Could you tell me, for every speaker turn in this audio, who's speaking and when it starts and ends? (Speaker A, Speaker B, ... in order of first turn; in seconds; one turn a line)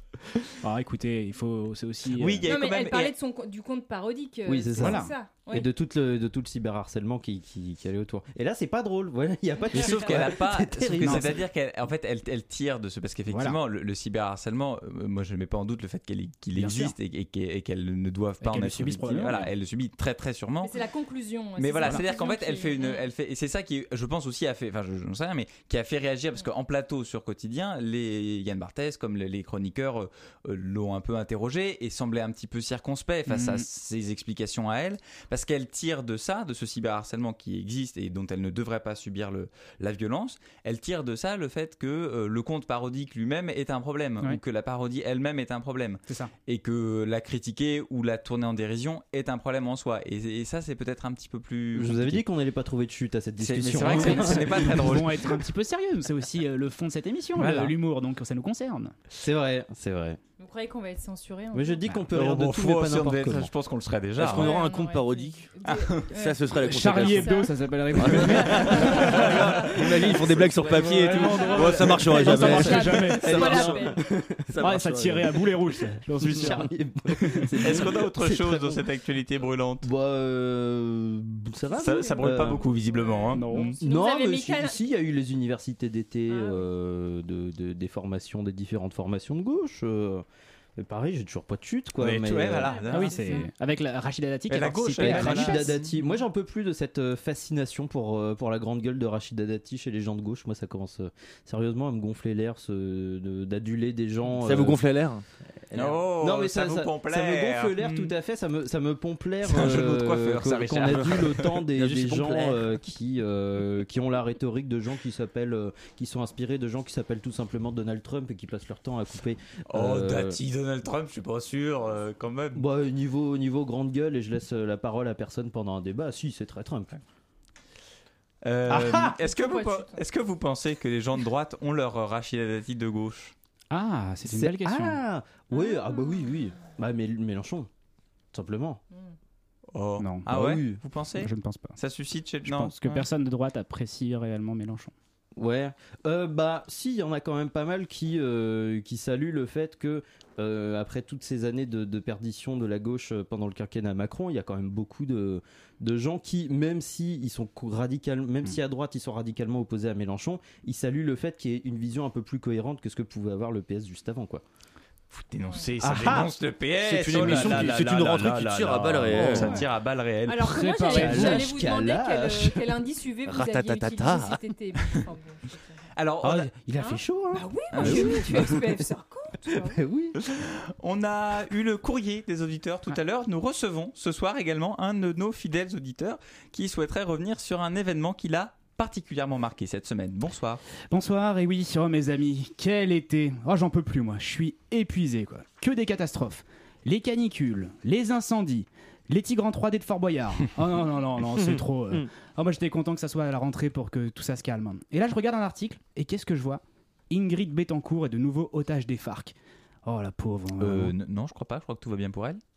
Speaker A: 0.6-2.5
Speaker B: 2.2-3.1
Speaker C: 2.5-5.7
Speaker D: 4.5-11.4
Speaker A: 4.8-5.1
Speaker B: 9.7-20.7
Speaker A: 11.0-11.4
Speaker A: 13.3-13.6
Speaker A: 16.6-16.9
Speaker A: 18.4-19.5
Speaker C: 20.6-23.1
Speaker B: 21.6-52.2
Speaker A: 33.3-33.7
Speaker A: 46.1-46.3
Speaker D: 51.7-55.0
Speaker B: 53.4-55.2
Speaker A: 53.8-58.9
Speaker B: 57.4-57.7
Speaker D: 59.1-60.2
Speaker C: 60.4-61.8
Speaker D: 61.5-63.5
Speaker B: 62.1-64.5
Speaker E: 64.2-65.5
Speaker C: 64.2-69.7
Speaker B: 65.7-66.0
Speaker E: 66.1-75.5
Speaker A: 66.6-70.2
Speaker A: 70.9-73.7
Speaker C: 71.1-74.1
Speaker D: 72.4-74.6
Speaker A: 74.6-77.8
Speaker D: 76.2-78.8
Speaker B: 77.6-79.9
Speaker D: 79.8-82.7
Speaker B: 81.8-83.7
Speaker C: 81.9-82.2
Speaker C: 82.8-84.8
Speaker A: 83.3-83.8
Speaker D: 83.8-90.2
Speaker C: 86.3-86.7
Speaker D: 90.8-92.8
Speaker B: 92.0-93.2
Speaker C: 92.6-93.5
Speaker A: 92.9-95.9
Speaker B: 94.5-95.7
Speaker D: 95.0-104.8
Speaker E: 104.3-105.2
Speaker D: 105.7-120.4
Speaker B: 105.7-108.2
Speaker B: 109.5-111.5
Speaker E: 109.5-112.7
Speaker B: 119.7-122.6
Speaker D: 122.5-127.0
Speaker B: 128.4-133.3
Speaker D: 128.7-129.1
Speaker C: 129.2-130.0
Speaker A: 133.7-135.0
Speaker D: 134.2-137.7
Speaker C: 135.5-136.5
Speaker D: 138.3-138.8
Speaker B: 139.7-143.1
Speaker A: 140.0-140.4
Speaker D: 140.3-140.8
Speaker A: 141.2-141.8
Speaker A: 142.4-144.9
Speaker D: 145.4-164.4
Speaker B: 165.1-170.5
Speaker D: 165.8-166.3
Speaker E: 166.8-169.6
Speaker D: 167.2-167.8
Speaker C: 169.3-169.7
Speaker C: 170.3-175.6
Speaker A: 170.4-171.5
Speaker D: 170.9-172.7
Speaker E: 173.3-174.4
Speaker B: 176.0-176.5
Speaker D: 176.2-178.8
Speaker C: 176.8-179.8
Speaker B: 177.7-178.5
Speaker D: 179.5-180.2
Speaker B: 180.2-190.6
Speaker A: 190.9-210.9
Speaker B: 210.6-212.4